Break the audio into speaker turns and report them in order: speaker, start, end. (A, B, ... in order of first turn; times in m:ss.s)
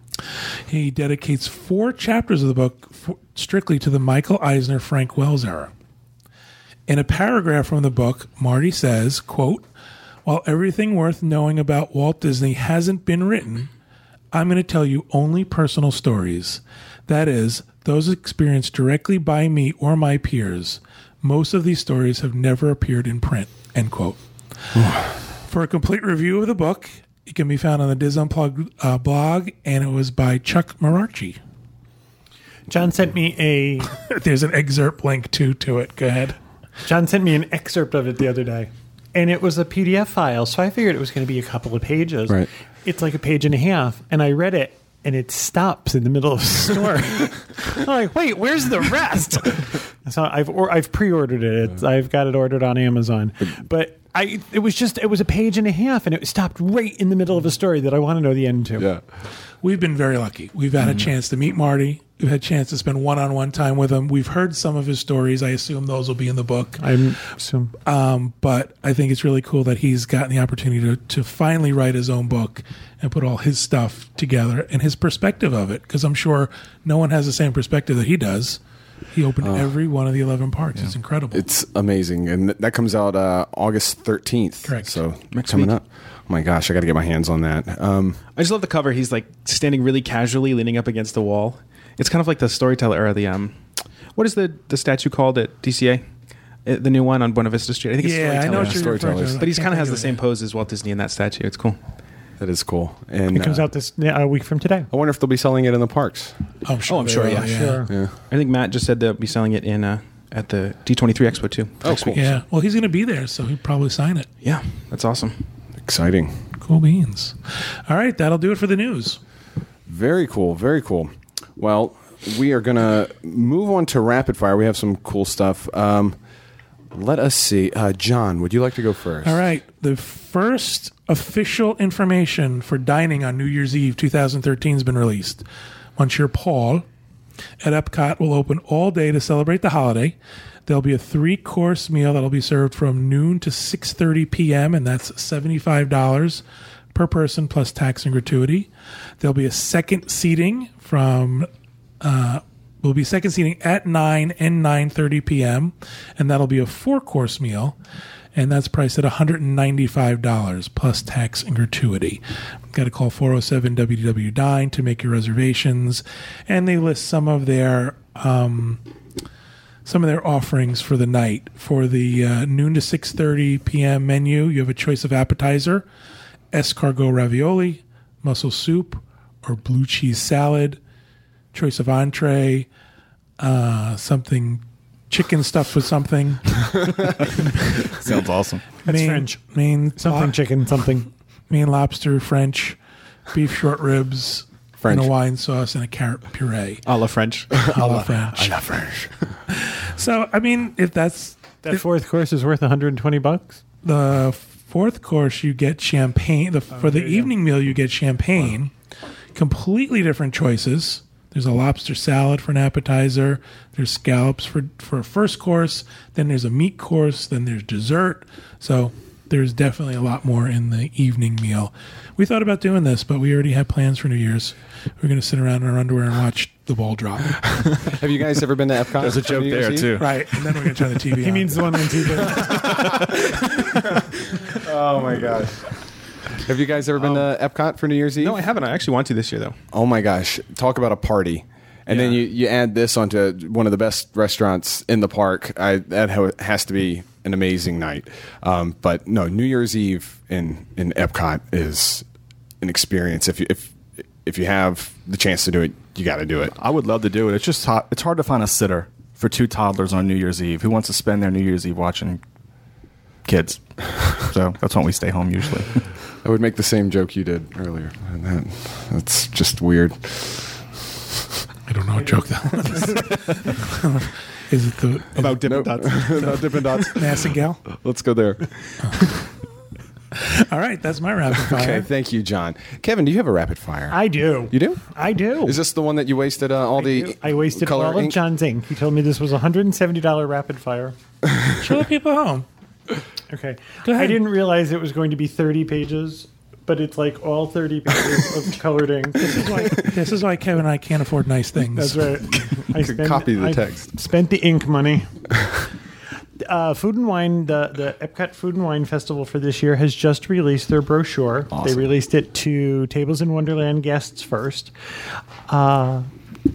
0:00.7-0:05.7 A
0:06.9-0:09.7 A
0:10.2-0:13.7 A
0:14.3-0:24.2 A
0:24.9-0:31.4 A
0:32.7-0:33.9 B
0:33.9-0:36.4 A
0:36.8-0:58.9 B
0:59.6-1:06.8 A
1:06.8-1:07.7 B
1:07.8-1:18.6 A
1:19.1-1:21.4 A
1:19.4-1:19.7 C
1:21.3-1:28.2 C
1:24.6-1:25.0 A
1:25.3-1:25.7 D
1:28.4-1:33.6 D
1:34.2-1:36.0 D
1:36.6-1:41.8 D
1:38.0-1:39.9 A
1:38.5-1:39.4 C
1:42.4-1:43.7 C
1:43.3-1:44.9 B
1:44.9-1:46.4 C
1:46.6-1:47.8 A
1:46.8-1:47.6 D
1:47.2-1:47.9 B
1:47.9-1:48.1 C
1:48.3-1:52.3 D
1:51.8-1:52.2 C
1:52.2-1:54.3 A
1:54.4-1:55.4 D
1:55.8-1:56.4 C
1:56.6-1:59.2 A
1:59.9-2:06.2 C
2:06.9-2:09.4 C
2:09.2-2:15.4 A
2:16.0-2:16.9 A
2:17.6-2:28.7 A
2:29.2-2:31.5 A
2:32.0-2:37.8 A
2:38.3-2:48.8 A
2:49.8-2:55.8 A
2:56.5-3:00.8 A
3:01.5-3:02.7 A
3:03.4-3:07.1 A
3:08.0-3:08.6 E
3:08.8-3:09.4 B
3:08.9-3:10.4 A
3:10.0-3:11.1 B
3:11.5-3:12.8 A
3:13.3-3:16.8 A
3:14.8-3:15.1 C
3:16.9-3:17.7 D
3:17.5-3:18.5 A
3:17.7-3:19.1 C
3:19.5-3:21.8 A
3:21.6-3:23.6 B
3:23.8-3:28.7 A
3:26.9-3:27.2 B
3:29.3-3:47.6 A
3:47.8-3:50.0 C
3:49.0-3:50.3 E
3:50.0-3:52.0 A
3:51.2-3:52.8 B
3:52.4-3:53.2 C
3:54.5-3:55.7 C
3:56.4-3:58.4 C
3:58.2-3:59.6 D
3:59.7-4:12.0 C
4:01.9-4:02.2 D
4:12.6-4:16.5 C
4:16.5-4:22.2 E
4:23.3-4:25.7 E
4:26.2-4:30.5 C
4:31.7-4:35.5 A
4:32.1-4:32.7 B
4:35.2-4:36.4 D
4:35.5-4:38.5 C
4:36.1-4:37.6 A
4:40.1-4:41.9 A
4:41.5-4:44.0 C
4:43.9-4:45.6 B
4:44.5-4:44.8 C
4:45.4-4:48.2 C
4:46.8-4:51.0 B
4:51.6-4:52.5 A
4:53.3-4:59.9 B
4:53.8-4:54.2 A
4:59.6-5:02.2 A
5:01.7-5:05.2 B
5:02.5-5:03.9 C
5:06.4-5:14.7 B
5:11.5-5:11.9 E
5:15.5-5:16.1 B